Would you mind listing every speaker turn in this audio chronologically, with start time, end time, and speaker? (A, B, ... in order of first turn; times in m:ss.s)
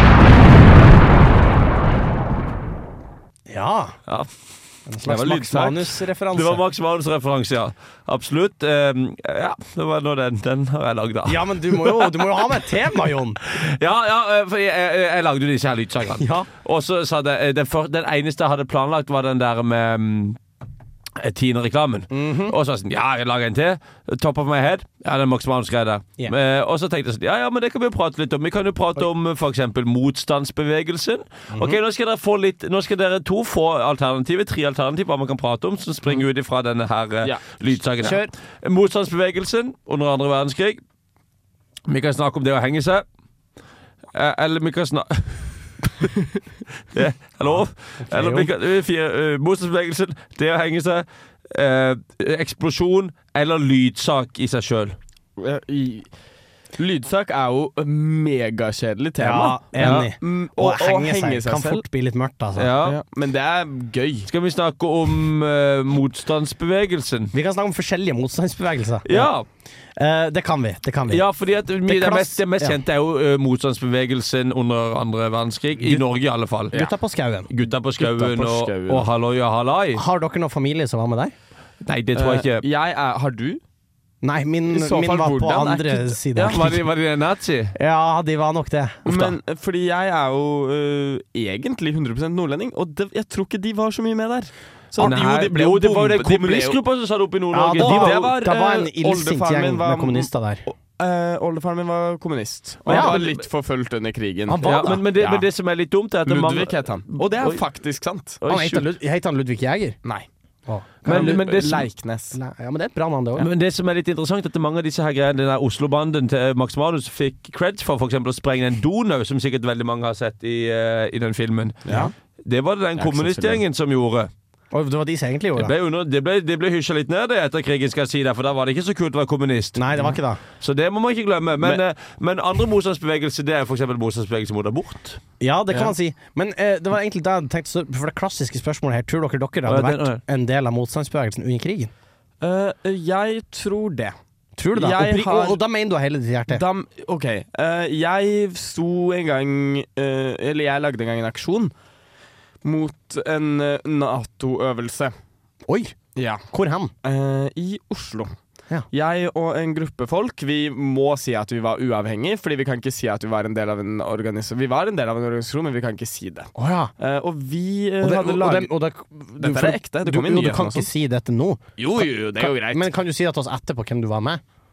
0:03.5-0:04.0 A
0:04.9-0:06.6 A
0:05.0-0:05.8 B
0:06.3-0:12.2 C
0:11.2-0:13.4 A
0:13.4-0:20.4 C
0:16.2-0:16.5 A
0:21.2-0:40.8 C
0:22.1-0:22.6 A
0:31.5-0:31.8 A
0:37.2-0:37.6 B
0:38.0-0:38.3 A
0:41.9-0:43.0 C
0:44.1-0:46.2 C
0:46.9-0:55.0 C
0:47.5-0:48.5 A
0:55.4-0:56.1 B
0:56.8-1:01.8 B
0:59.2-1:02.7 A
0:59.8-1:00.1 C
1:02.6-1:03.0 C
1:02.8-1:04.3 B
1:04.3-1:07.3 C
1:07.3-1:09.3 A
1:09.0-1:09.4 C
1:10.0-1:11.3 A
1:11.1-1:16.9 C
1:11.8-1:12.8 A
1:16.7-1:17.5 A
1:17.5-1:20.0 C
1:17.9-1:19.1 B
1:19.9-1:21.3 A
1:21.8-1:22.6 C
1:22.1-1:23.6 B
1:24.2-1:26.8 A
1:24.7-1:26.7 B
1:26.4-1:27.7 C
1:27.7-1:29.2 A
1:29.0-1:36.8 B
1:35.0-1:38.4 C
1:37.5-1:40.6 A
1:37.8-1:45.4 B
1:42.8-1:43.4 C
1:42.9-1:43.2 A
1:44.5-1:45.4 A
1:44.6-1:47.6 C
1:46.2-1:48.4 B
1:48.4-1:48.9 C
1:48.4-1:50.0 A
1:50.6-1:51.8 A
1:51.0-1:51.9 C
1:51.0-1:52.4 B
1:52.3-1:53.5 A
1:53.4-2:04.3 C
2:01.8-2:02.1 B
2:01.9-2:02.1 A
2:03.0-2:03.6 B
2:04.7-2:05.7 A
2:05.6-2:15.2 C
2:09.8-2:10.4 A
2:15.4-2:21.9 A
2:19.6-2:20.2 C
2:22.4-2:24.1 B
2:24.6-2:26.6 A
2:24.7-2:25.6 B
2:26.5-2:31.7 B
2:32.6-2:35.1 B
2:35.7-2:36.0 A
2:36.1-2:36.4 B
2:36.5-2:36.9 A
2:37.0-2:38.3 B
2:38.9-2:48.7 B
2:46.6-2:46.9 A
2:48.0-2:54.4 A
2:49.4-2:50.9 B
2:51.8-2:52.9 B